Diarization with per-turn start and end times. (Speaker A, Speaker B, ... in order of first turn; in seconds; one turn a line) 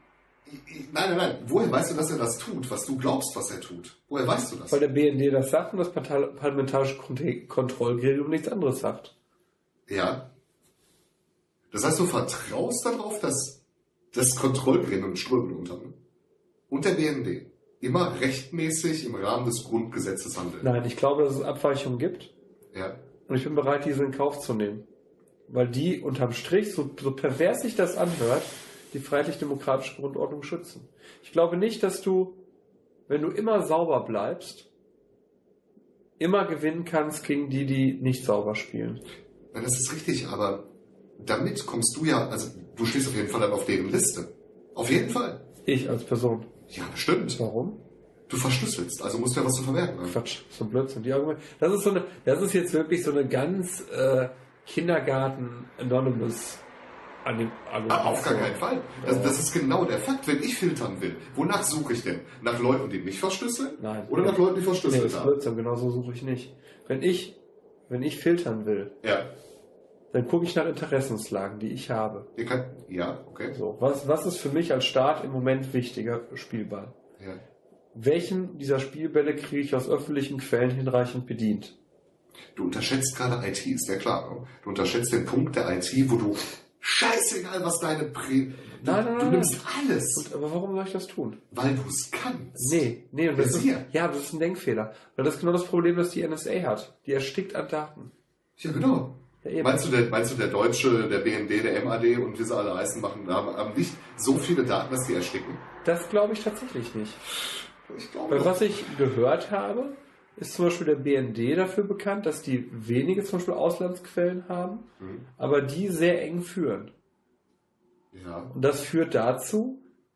Speaker A: 0.4-4.8
Speaker B: 4.7-9.1
Speaker A: 9.9-10.3
Speaker A: 11.7-13.6
Speaker A: 14.1-16.0
Speaker A: 16.7-20.7
Speaker B: 20.6-22.3
Speaker A: 22.7-23.0
Speaker B: 23.3-24.9
Speaker B: 25.5-32.4
Speaker B: 33.1-34.7
Speaker B: 36.2-39.0
Speaker A: 39.5-45.4
Speaker B: 45.6-46.5
Speaker A: 46.7-47.4
Speaker B: 47.3-47.8
Speaker A: 48.3-50.2
Speaker B: 50.0-56.6
Speaker B: 57.2-59.4
Speaker A: 57.9-65.3
Speaker B: 63.8-67.4
Speaker B: 67.9-68.9
Speaker A: 69.0-69.3
Speaker B: 70.1-72.3
Speaker A: 72.3-73.5
Speaker B: 73.5-77.0
Speaker B: 77.9-81.7
Speaker A: 82.5-90.3
Speaker B: 88.8-91.4
Speaker A: 91.5-93.8
Speaker B: 92.6-98.1
Speaker A: 98.6-105.6
Speaker B: 99.4-99.9
Speaker B: 105.8-107.2
Speaker A: 107.8-108.9
Speaker B: 108.3-116.9
Speaker A: 115.0-115.2
Speaker A: 118.1-118.5
Speaker B: 118.5-119.8